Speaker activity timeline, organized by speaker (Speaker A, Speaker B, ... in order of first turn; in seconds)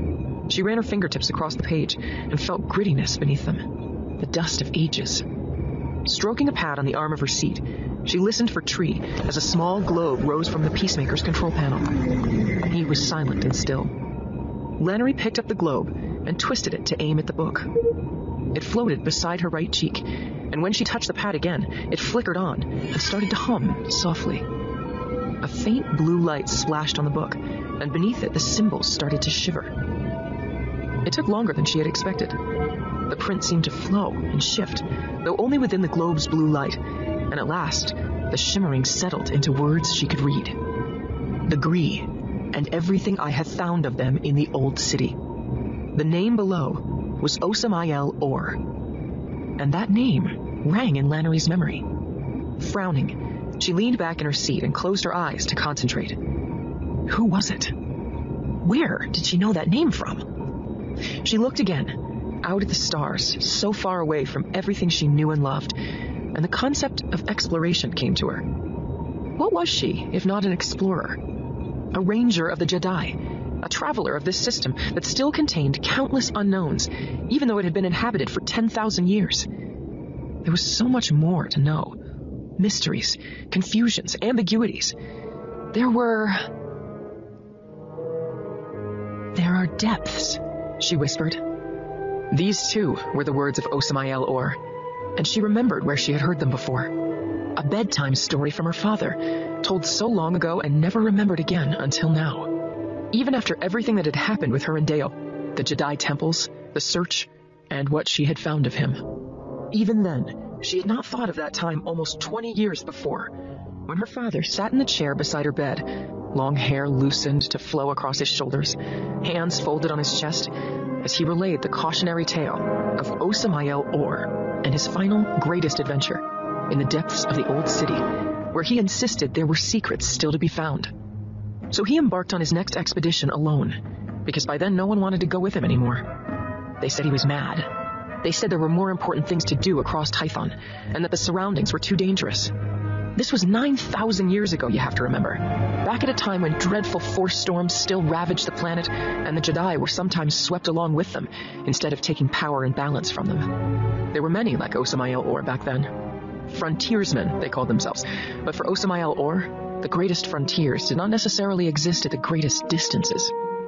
Speaker A: 0.5-5.2, 6.0-11.9, 12.7-13.9, 14.8-17.7, 18.5-24.5, 25.4-29.7, 31.1-32.4, 33.1-40.6, 41.5-45.2, 45.9-48.6, 49.6-51.9, 52.6-56.2, 57.1-57.7, 58.6-60.3, 61.2-65.8, 66.3-68.4, 69.4-71.2, 71.9-79.5, 80.4-82.0, 82.6-85.0, 85.7-86.5, 89.3-91.4, 92.3-94.6, 95.2-96.9, 97.6-102.5, 103.1-109.0, 109.7-113.3, 113.9-130.9, 131.7-136.1, 136.8-142.5, 143.2-155.9, 156.5-163.3